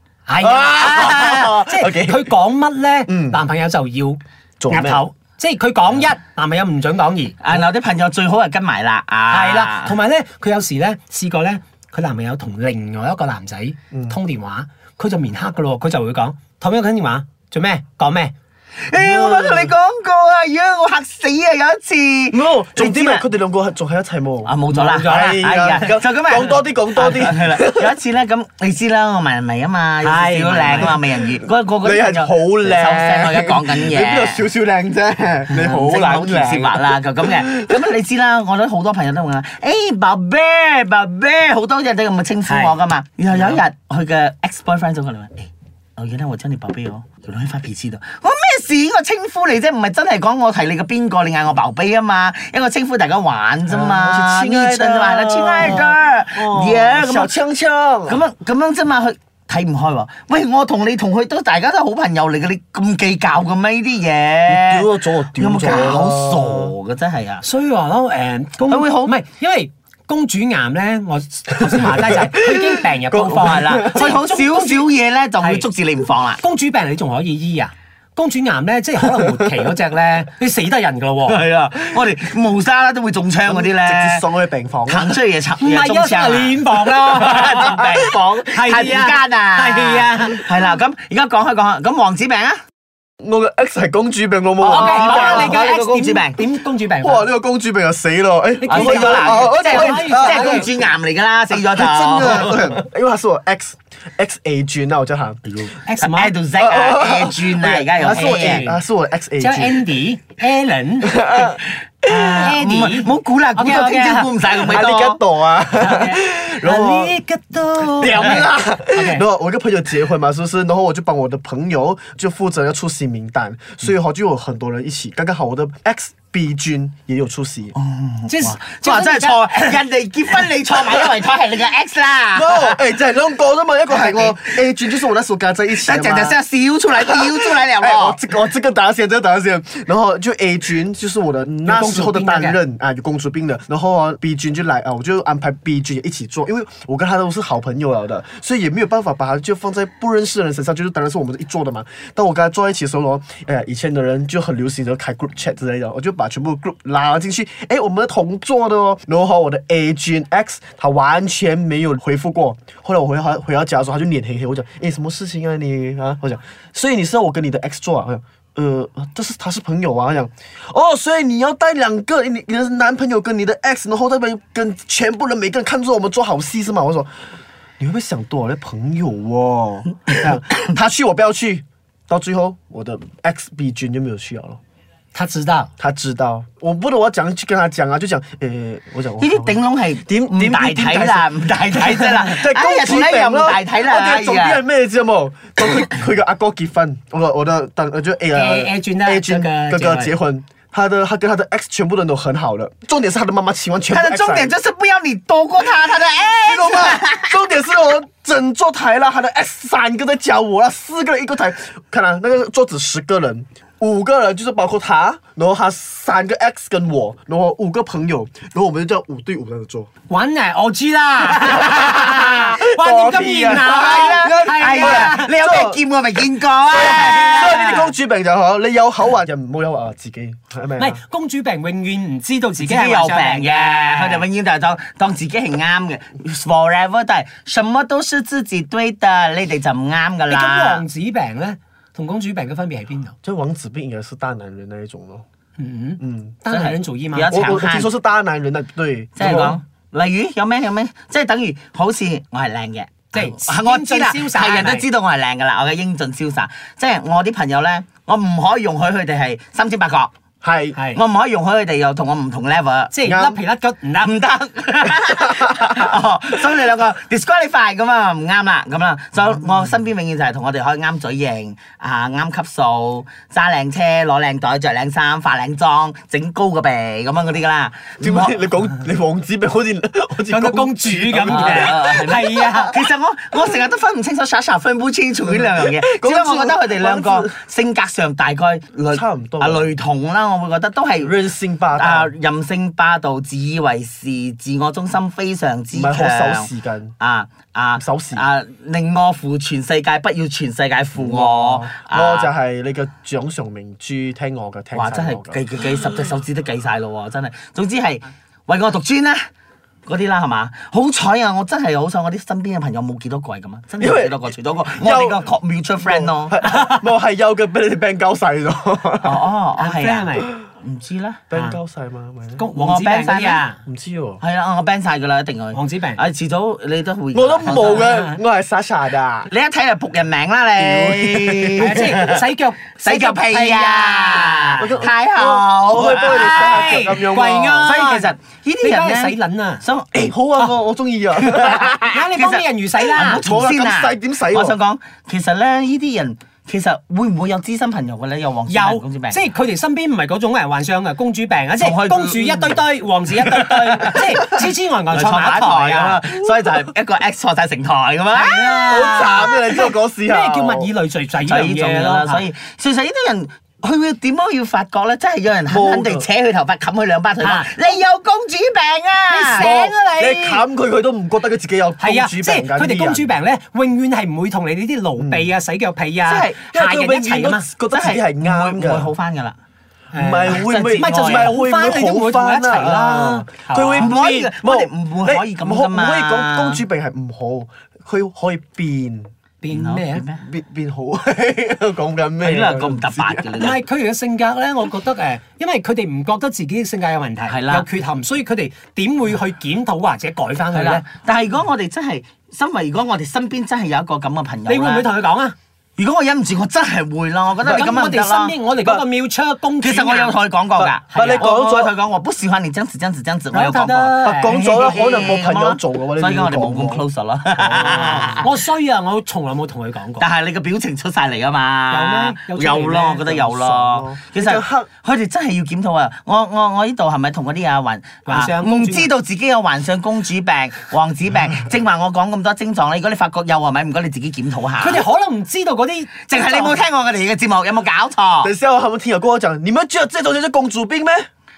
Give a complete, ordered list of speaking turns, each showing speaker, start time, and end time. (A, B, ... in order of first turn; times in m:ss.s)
0:00.3-0:07.6 A
0:00.4-0:02.3 B
0:03.1-0:03.4 B
0:04.6-0:05.1 B
0:07.4-0:10.0 C
0:09.3-0:18.3 A
0:13.9-0:14.2 B
0:18.9-0:23.3 C
0:18.9-0:19.7 B
0:22.3-0:28.0 B
0:24.4-0:34.4 C
0:24.7-0:25.2 A
0:30.0-0:31.0 A
0:30.7-0:31.0 B
0:31.8-0:37.7 B
0:35.5-0:57.4 C
0:42.5-0:42.7 A
0:43.3-0:43.6 B
0:53.7-0:58.2 B
0:58.1-1:07.4 C
1:04.5-1:06.7 B
1:07.4-1:15.7 A
1:08.7-1:09.2 C
1:11.7-1:14.1 B
1:13.3-1:16.4 C
1:16.4-1:21.4 A
1:21.3-1:24.3 C
1:23.5-1:25.2 B
1:24.9-1:32.6 C
1:25.6-1:30.5 A
1:33.2-1:35.7 B
1:34.6-1:36.4 C
1:34.6-1:37.3 A
1:37.0-1:40.7 B
1:38.6-1:40.7 A
1:38.7-1:42.8 C
1:41.5-1:45.4 B
1:45.8-1:46.4 A
1:46.0-1:48.7 C
1:46.6-1:49.9 B
1:48.0-1:48.8 A
1:49.4-1:51.3 A
1:51.0-1:51.6 B
1:52.0-1:55.2 C
1:52.1-1:54.3 A
1:54.5-1:57.2 B
1:55.8-1:59.2 A
1:57.8-2:07.8 B
2:07.8-2:12.8 C
2:08.3-2:09.8 A
2:12.3-2:16.4 B
2:13.9-2:14.6 C
2:15.8-2:18.2 C
2:17.0-2:57.1 B
2:21.6-2:22.6 A
2:57.8-3:04.6 B
3:05.1-3:05.7 A
3:05.8-3:24.6 B
3:09.2-3:14.6 C
3:18.3-3:20.1 A
3:23.9-3:27.4 C
3:26.4-3:39.9 B
3:40.1-3:45.3 A
3:41.5-3:42.1 C
3:41.6-3:45.8 B
3:43.5-3:47.9 C
3:46.7-3:51.0 B
3:46.9-3:47.4 A
3:50.8-3:54.2 A
3:52.6-4:00.8 C
4:00.3-4:03.2 A
4:03.2-4:05.2 B
4:05.6-4:07.5 A
4:06.0-4:06.4 B
4:06.5-4:07.9 C
4:07.3-4:09.6 B
4:09.2-4:20.1 C
4:13.1-4:14.9 A
4:20.4-4:20.8 B
4:20.8-4:21.0 A
4:20.9-4:23.0 C
4:22.9-4:24.1 A
4:23.0-4:23.4 B
4:24.0-4:38.4 C
4:25.2-4:25.7 B
4:38.0-4:41.8 B
4:40.3-4:42.8 A
4:41.3-4:51.1 C
4:45.2-4:47.3 B
4:48.9-4:49.7 B
4:51.0-4:52.1 B
4:51.8-5:02.3 C
4:55.7-4:57.0 B
4:57.8-4:58.2 B
5:01.0-5:05.4 B
5:04.7-5:09.2 C
5:09.9-5:16.8 C
5:13.8-5:14.2 B
5:14.7-5:19.3 B
5:19.0-5:21.2 C
5:19.6-5:20.3 A
5:21.3-5:22.5 B
5:21.3-5:21.6 A
5:22.4-5:23.6 A
5:22.6-5:23.4 C
5:23.7-5:24.2 B
5:24.2-5:28.0 C
5:25.5-5:26.0 A
5:27.1-5:29.3 B
5:27.5-5:28.2 A
5:29.3-5:32.2 C
5:30.6-5:32.0 B
5:31.6-5:34.9 A
5:32.8-5:37.0 C
5:34.6-5:37.7 B
5:35.8-5:39.6 A
5:37.6-5:40.1 C
5:39.9-5:41.8 B
5:41.3-5:49.2 C
5:41.3-5:43.2 A
5:43.0-5:44.6 B
5:48.5-5:56.0 A
5:51.6-5:52.6 C
5:53.2-5:59.7 C
5:58.1-6:00.7 B
6:00.1-6:02.3 A
6:01.2-6:09.5 C
6:05.5-6:06.1 B
6:07.2-6:07.8 A
6:09.1-6:10.4 A
6:09.3-6:13.1 B
6:11.8-6:17.5 A
6:15.0-6:15.3 B
6:16.1-6:16.4 C
6:16.5-6:18.9 B
6:17.7-6:19.4 C
6:19.9-6:24.3 A
6:20.0-6:29.1 B
6:20.3-6:21.4 C
6:23.8-6:26.6 C
6:29.4-6:30.0 A
6:29.5-6:30.2 C
6:30.2-6:33.3 B
6:32.2-6:33.6 C
6:33.4-6:40.8 A
6:37.3-6:37.7 C
6:40.5-6:44.9 C
6:44.5-6:45.4 A
6:45.8-6:48.4 C
6:47.4-6:47.8 B
6:47.5-6:50.2 A
6:48.6-6:48.9 B
6:49.6-6:58.3 C
6:50.6-6:51.7 B
6:50.9-6:51.3 A
6:53.3-6:54.4 A
6:54.0-6:56.9 B
6:57.4-6:58.3 B
6:57.6-7:00.1 A
7:00.0-7:14.8 C
7:01.7-7:03.1 A
7:03.1-7:04.7 B
7:08.1-7:08.9 A
7:14.6-7:16.6 A
7:16.1-7:18.3 C
7:18.2-7:21.1 B